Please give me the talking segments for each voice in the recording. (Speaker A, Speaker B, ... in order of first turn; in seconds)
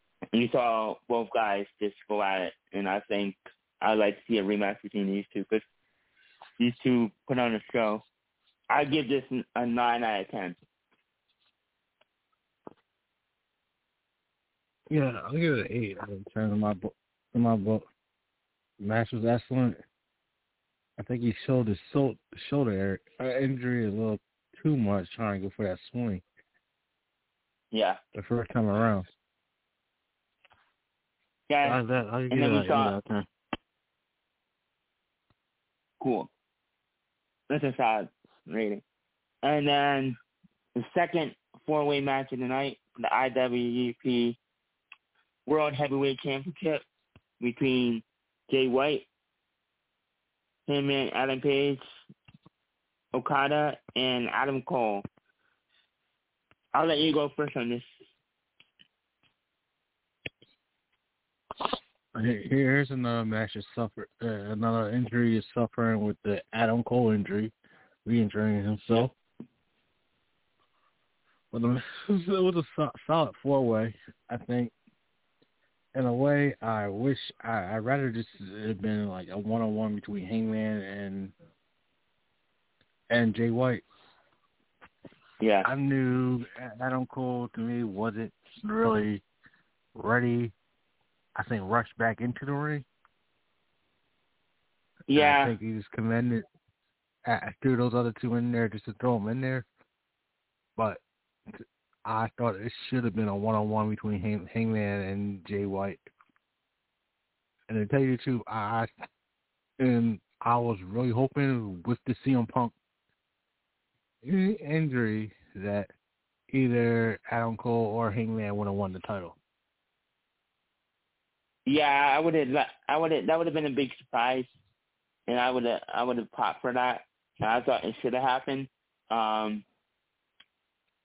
Speaker A: 0.3-5.6, 6.6-8.0, 8.7-10.6, 27.7-28.0, 31.5-33.0, 36.0-36.3, 37.5-38.8, 39.4-40.1, 40.8-44.4, 45.5-46.8, 47.4-49.1, 50.7-51.8, 53.1-55.0, 56.7-57.9, 85.4-85.7, 95.1-95.5, 121.7-124.5, 125.3-129.7
Speaker B: 14.9-17.9, 18.8-19.8, 21.0-26.2, 28.1-29.1, 31.6-33.3, 62.1-67.5, 68.0-69.1, 71.5-74.7, 75.9-81.3, 83.1-83.8, 85.6-89.2, 89.9-90.5, 91.3-92.9, 95.1-96.5, 97.2-99.7, 100.8-101.0, 101.5-106.0, 107.7-108.9, 109.8-112.7, 114.2-115.9, 116.5-119.4